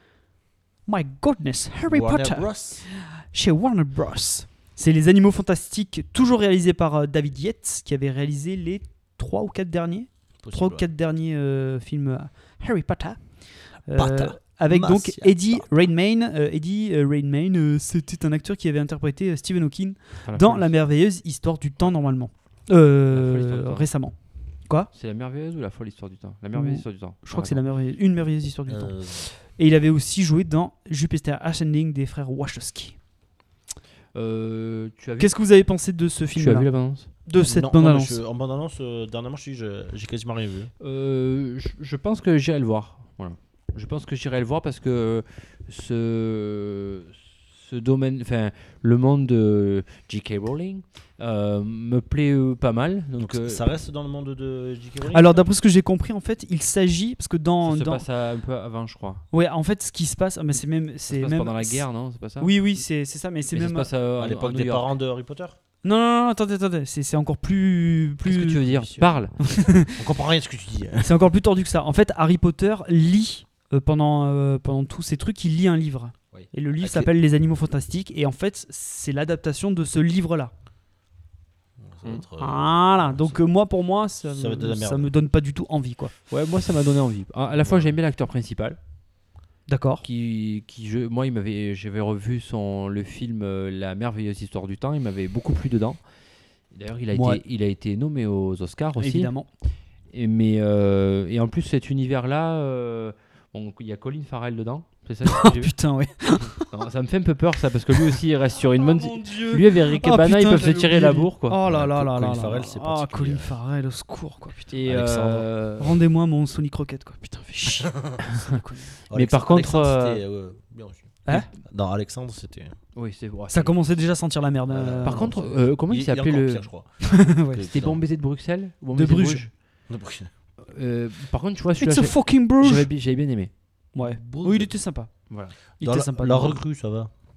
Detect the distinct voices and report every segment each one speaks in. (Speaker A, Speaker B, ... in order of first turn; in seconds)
Speaker A: 0.9-13.3, 13.9-24.1, 26.5-33.0, 35.2-38.2, 55.1-58.0, 59.3-61.9, 62.4-63.9, 65.8-68.6, 69.4-70.0, 71.0-80.5, 82.4-86.1, 89.7-90.0, 97.1-97.4, 99.0-99.5, 105.3-106.7, 108.0-114.7, 115.8-118.9, 123.5-125.3, 127.0-127.6, 128.9-129.4, 131.8-132.9, 133.9-135.1, 135.8-136.6
Speaker B: 1.9-2.8, 10.4-10.8, 13.9-15.7, 28.7-29.2, 37.4-40.7, 53.2-55.4, 64.2-65.6, 68.8-69.1, 70.0-71.2, 76.3-77.1, 81.8-83.4, 84.3-85.1, 87.6-87.9, 111.7-113.5, 114.8-115.5, 117.9-118.2, 119.1-122.8, 124.7-128.0, 129.9-130.3, 134.0-134.7, 135.8-137.1
Speaker C: 20.2-20.8, 23.1-23.9, 24.9-27.6, 34.1-35.4, 36.4-37.1, 40.8-53.7, 57.6-59.2, 61.1-62.5, 63.5-64.9, 68.2-69.3, 86.3-88.8, 90.0-96.0, 96.7-99.3, 100.1-105.8, 106.7-111.6, 114.7-116.0, 119.1-120.2, 123.0-123.7, 125.0-126.7, 127.6-129.5, 130.6-133.5, 135.3-135.6